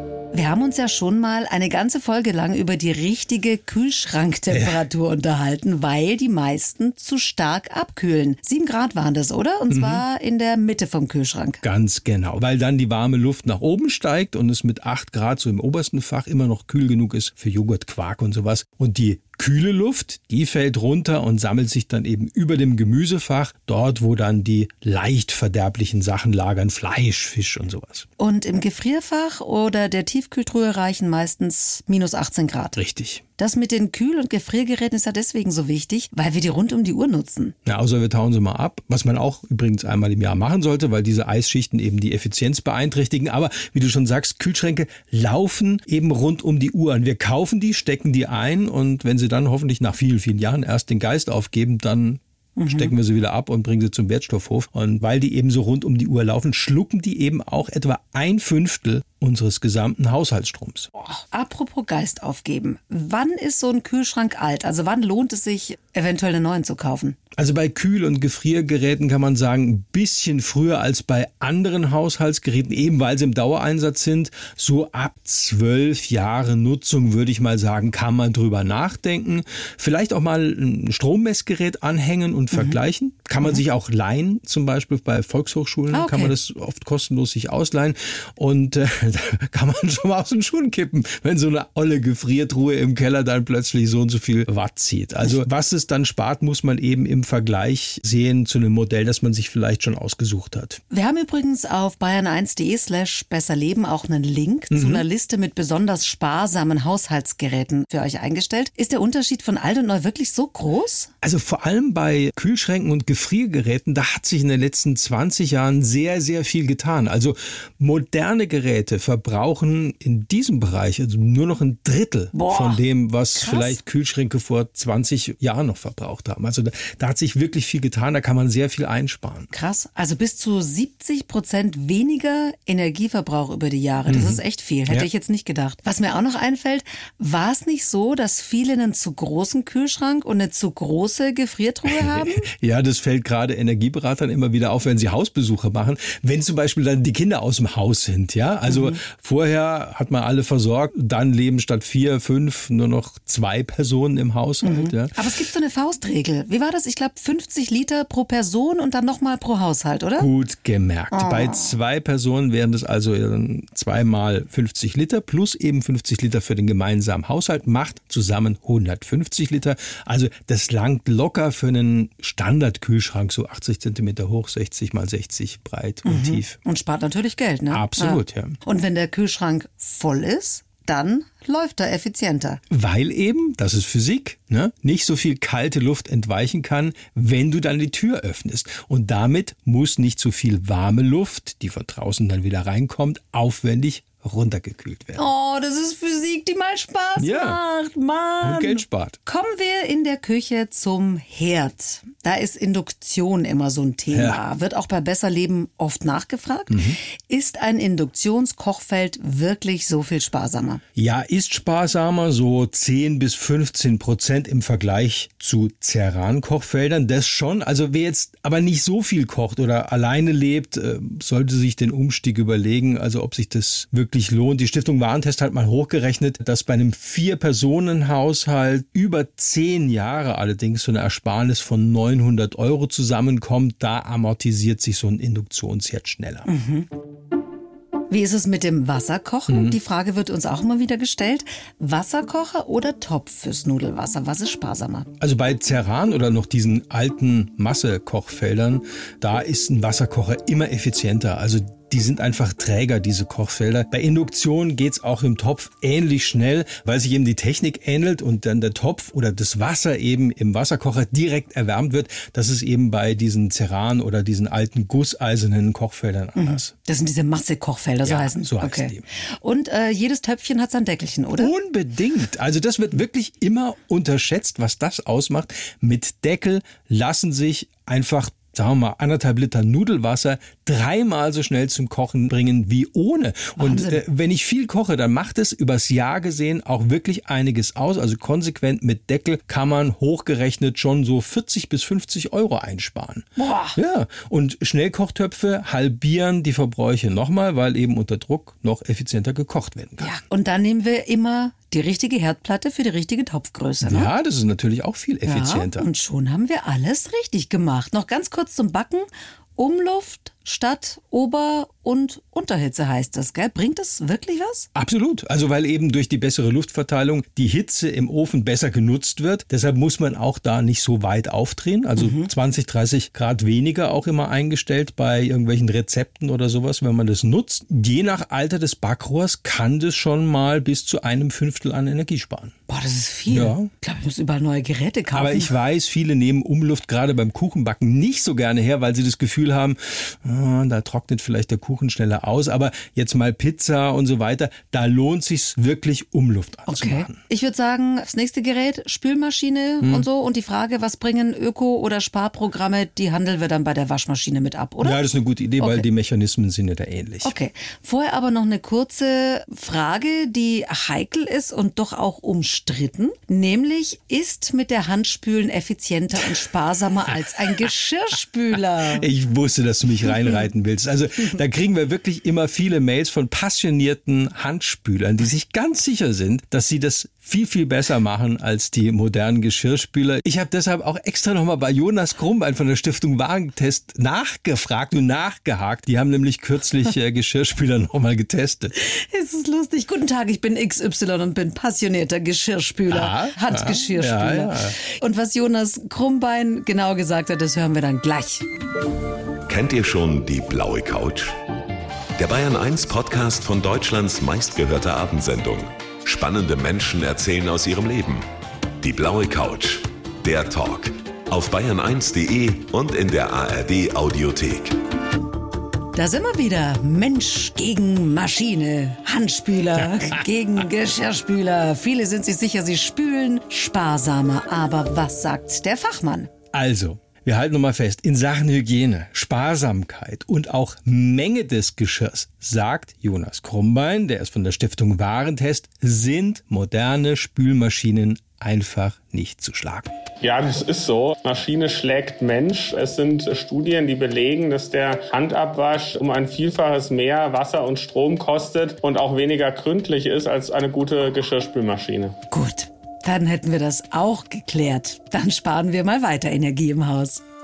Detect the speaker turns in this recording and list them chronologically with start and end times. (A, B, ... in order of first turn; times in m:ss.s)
0:00.3-0:11.6 A
0:04.5-0:04.8 B
0:09.7-0:10.0 B
0:11.6-0:28.1 B
0:28.2-0:32.8 A
0:32.8-0:33.2 B
0:33.4-0:37.6 A
0:37.6-1:00.9 B
0:52.6-0:52.9 A
1:01.0-1:07.2 A
1:07.4-1:40.8 B
1:22.5-1:22.8 A
1:25.9-1:26.3 A
1:40.9-1:51.1 A
1:44.7-1:45.0 B
1:51.2-2:09.5 B
2:02.3-2:02.8 A
2:03.4-2:03.8 A
2:09.5-2:22.5 A
2:14.1-2:15.1 B
2:21.8-2:35.2 B
2:28.7-2:29.0 A
2:34.6-2:40.3 A
2:40.2-2:56.6 B
2:41.1-2:41.7 A
2:56.0-3:02.6 A
2:57.7-2:58.6 B
3:02.7-3:15.2 B
3:15.2-3:30.8 A
3:17.2-3:17.6 B
3:18.4-3:19.2 B
3:24.1-3:24.4 B
3:26.7-3:27.0 B
3:31.0-3:56.5 B
3:56.5-3:56.9 A
3:58.1-4:05.1 A
3:59.5-3:59.8 B
4:05.2-4:26.7 B
4:26.4-4:31.5 A
4:28.0-4:29.0 B
4:31.4-5:00.1 B
4:43.6-4:44.0 A
4:53.4-4:53.8 A
5:00.0-5:04.1 A
5:03.8-5:05.9 B
5:05.3-5:14.7 A
5:14.8-5:32.6 B
5:22.0-5:22.3 A
5:32.7-5:35.5 A
5:33.3-5:33.7 B
5:35.1-5:47.2 B
5:46.7-5:55.0 A
5:49.8-5:50.1 B
5:54.8-5:57.4 B
5:55.6-5:55.8 A
5:57.2-6:09.1 A
6:07.2-6:07.7 B
6:08.9-6:28.7 B
6:28.8-6:38.4 A
6:32.9-6:34.8 B
6:39.5-6:41.4 C
6:42.2-6:48.3 C
6:48.8-6:54.8 C
6:55.9-7:06.3 A
6:59.8-7:00.2 B
7:06.5-7:19.9 B
7:20.2-7:32.2 D
7:32.3-7:37.2 A